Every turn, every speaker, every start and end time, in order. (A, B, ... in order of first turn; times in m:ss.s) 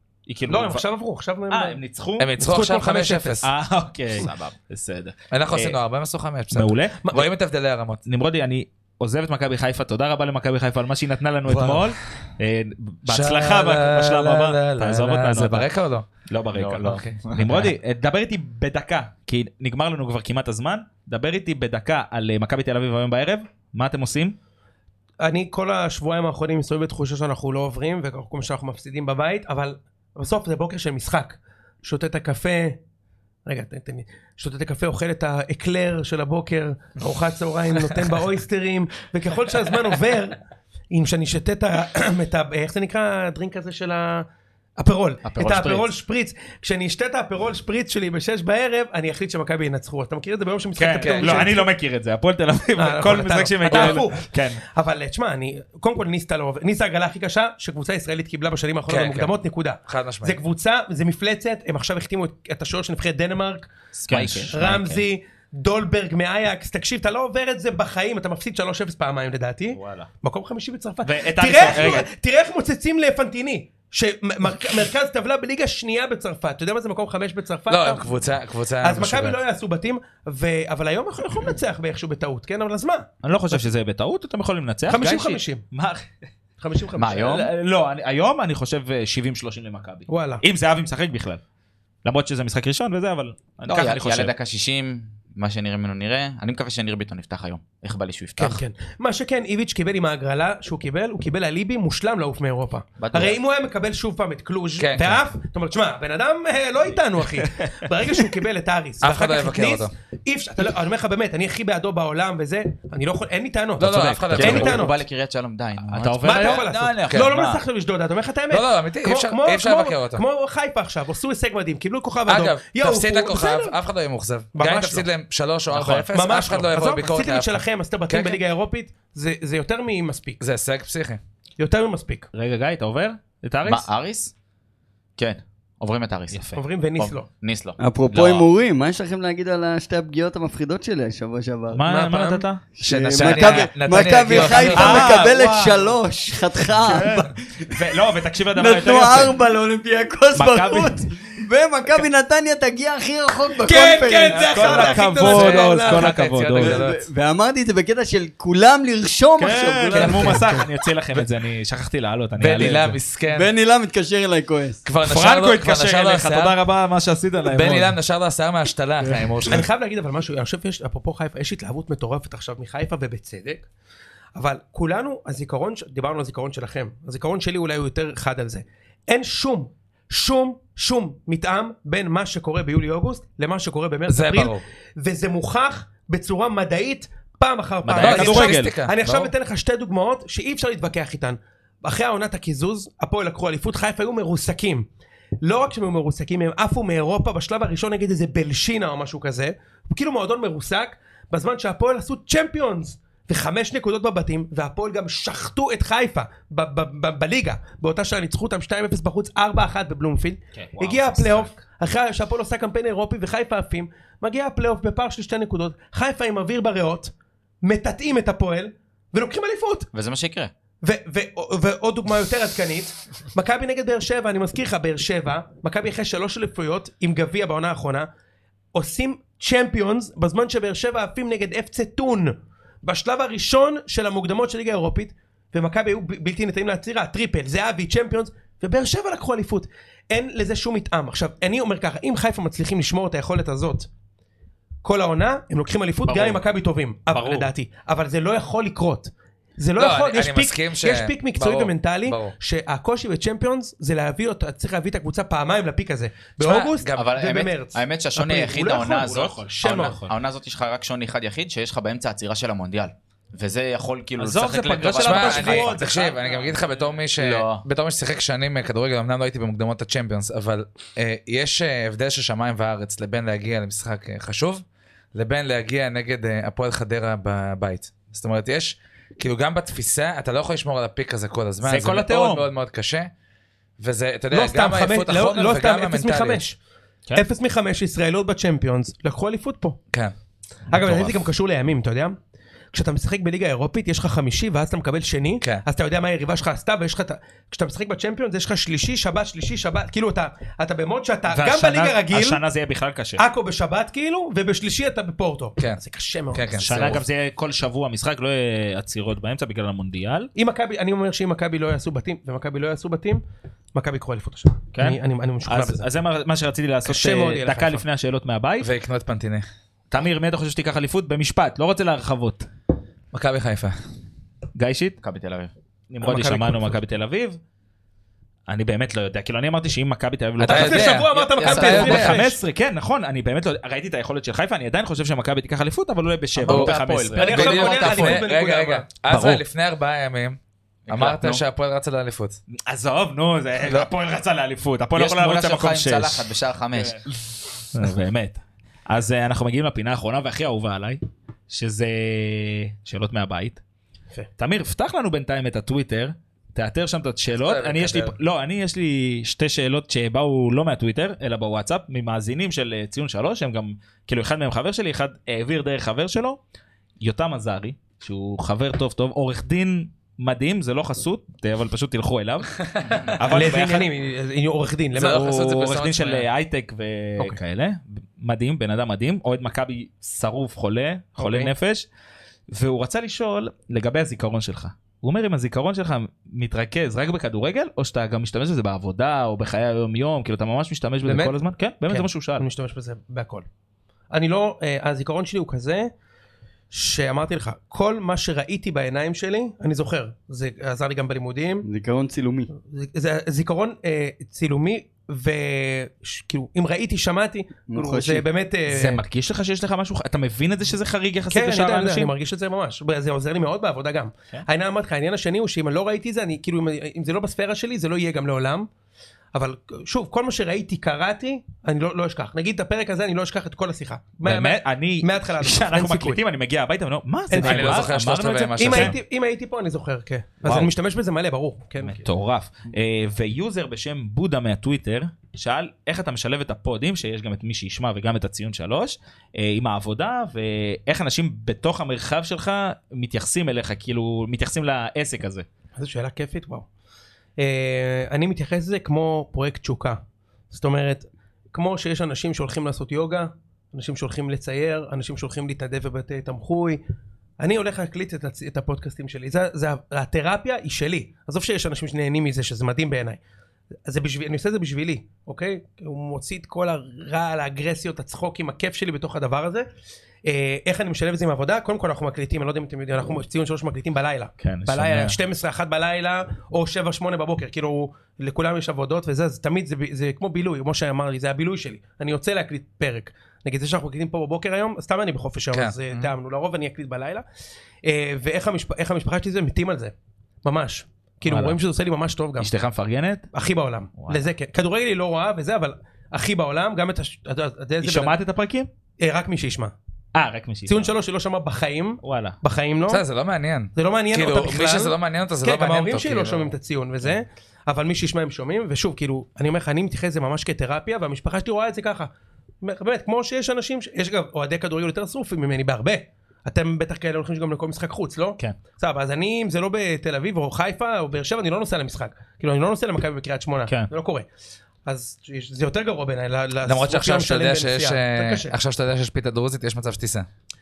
0:00.3-0:00.8 A
0:00.5-0:01.8 B
0:01.5-0:02.3 A
0:02.2-0:03.5 C
0:02.4-0:03.4 B
0:03.4-0:05.8 A
0:04.2-0:04.5 D
0:05.3-0:08.0 C
0:06.5-0:07.0 A
0:07.0-0:07.3 B
0:08.1-0:15.7 A
0:11.5-0:11.9 C
0:13.1-0:16.1 C
0:16.3-0:24.4 A
0:16.5-0:17.7 D
0:16.9-0:17.2 C
0:25.2-0:32.8 B
0:33.5-0:40.4 B
0:40.9-0:44.3 B
0:44.8-0:51.7 B
0:45.2-0:45.9 D
0:50.8-0:54.6 A
0:51.0-0:51.5 C
0:52.8-1:03.7 B
0:53.7-0:54.0 C
0:58.9-0:59.4 C
0:59.9-1:00.4 C
1:04.1-1:04.5 A
1:04.1-1:05.0 D
1:04.5-1:18.2 B
1:11.0-1:12.1 A
1:17.7-1:19.4 C
1:18.8-1:23.6 B
1:23.2-1:26.0 A
1:24.9-1:25.6 B
1:26.6-1:27.4 B
1:27.0-1:27.5 D
1:27.2-1:31.4 A
1:30.1-1:30.4 B
1:32.0-1:34.3 A
1:33.7-1:38.6 D
1:38.4-1:55.0 B
1:43.0-1:43.4 D
1:44.8-1:45.2 C
1:49.0-1:49.9 C
1:53.8-1:54.9 C
1:54.3-1:57.6 D
1:55.9-1:56.7 A
1:56.2-2:03.8 B
1:58.5-2:00.2 C
2:02.3-2:08.4 C
2:04.5-2:05.1 B
2:05.7-2:06.0 A
2:06.1-2:10.4 B
2:10.4-2:11.2 C
2:11.6-2:12.3 B
2:12.3-2:13.8 A
2:13.6-2:14.3 D
2:15.2-2:18.5 D
2:16.3-2:16.6 A
2:16.5-2:17.3 B
2:17.8-2:21.8 E
2:21.7-2:22.6 A
2:21.9-2:22.4 B
2:22.8-2:27.7 E
2:22.8-2:25.1 C
2:23.2-2:23.6 A
2:24.3-2:25.8 B
2:24.4-2:25.7 A
2:26.9-2:29.4 A
2:28.6-2:34.8 E
2:30.4-2:31.1 A
2:33.6-2:36.1 B
2:34.3-2:36.8 A
2:34.6-2:37.0 C
2:36.6-2:40.6 E
2:39.4-2:43.0 A
2:40.0-2:40.6 B
2:42.4-2:43.5 C
2:43.3-2:44.8 E
2:44.8-2:46.6 C
2:45.0-2:48.0 A
2:47.5-2:49.7 C
2:49.5-2:53.7 B
2:54.4-3:14.9 B
3:04.1-3:04.6 C
3:07.8-3:08.8 A
3:08.0-3:09.3 C
3:15.4-3:39.9 B
3:30.6-3:31.5 A
3:39.9-3:40.5 D
3:40.8-3:48.1 B
3:48.7-4:03.9 B
4:04.8-4:20.0 B
4:06.1-4:06.3 A
4:07.1-4:07.5 A
4:09.8-4:12.4 C
4:16.4-4:17.1 C
4:17.0-4:25.8 D
4:19.0-4:20.1 A
4:24.2-4:26.8 A
4:25.0-4:26.5 B
4:25.0-4:34.6 C
4:27.1-4:27.7 D
4:35.1-4:43.1 C
4:41.6-4:42.5 A
4:43.8-4:46.4 C
4:44.3-4:46.6 B
4:47.2-4:49.8 B
4:50.7-4:52.2 B
4:52.7-5:02.4 B
5:01.3-5:03.2 A
5:03.2-5:07.0 B
5:06.3-5:07.0 C
5:06.6-5:10.3 A
5:10.4-5:13.2 B
5:13.7-5:15.8 B
5:14.8-5:18.7 A
5:16.9-5:17.8 B
5:18.6-5:19.5 C
5:19.9-5:22.5 A
5:23.1-5:23.8 C
5:24.6-5:25.0 A
5:25.0-5:25.5 D
5:25.9-5:27.4 A
5:26.0-5:26.8 B
5:28.5-5:38.2 A
5:30.4-5:32.4 B
5:30.4-5:32.2 C
5:31.2-5:32.2 D
5:36.4-5:38.2 D
5:36.5-5:40.4 C
5:37.2-5:38.9 B
5:39.1-5:39.4 A
5:40.9-5:41.4 D
5:40.9-5:42.4 C
5:42.5-5:47.0 A
5:45.0-5:47.0 D
5:47.7-5:53.6 A
5:54.4-6:06.4 A
5:57.3-5:58.2 C
6:07.0-6:13.9 A
6:13.3-6:15.3 B
6:15.0-6:16.3 C
6:15.0-6:21.9 A
6:21.2-6:21.5 B
6:22.5-6:32.5 A
6:31.0-6:31.4 B
6:31.9-6:33.5 B
6:34.1-6:35.9 B
6:36.7-6:41.7 B
6:41.6-6:42.5 E
6:42.7-6:49.0 B
6:47.7-6:48.2 E
6:48.7-6:52.1 A
6:51.3-6:58.7 B
6:59.3-7:06.2 B
7:04.2-7:09.0 A
7:07.3-7:07.8 B
7:07.4-7:09.0 C
7:08.6-7:12.0 B
7:10.4-7:10.7 A
7:11.8-7:25.5 A
7:25.8-7:26.7 B
7:27.4-7:30.0 B
7:30.5-7:36.8 B
7:37.4-7:43.2 B
7:43.9-7:49.7 B
7:50.2-8:07.2 B
7:54.4-7:55.2 A
8:05.5-8:06.1 C
8:07.8-8:12.5 B
8:11.3-8:11.6 A
8:12.4-8:13.3 A
8:13.3-8:18.2 B
8:17.8-8:18.7 A
8:19.0-8:19.7 B
8:20.2-8:20.9 A
8:20.7-8:23.0 B
8:22.0-8:22.4 A
8:22.9-8:26.5 C
8:23.8-8:32.1 B
8:32.6-8:44.3 B
8:44.8-8:48.5 B
8:46.6-8:50.3 C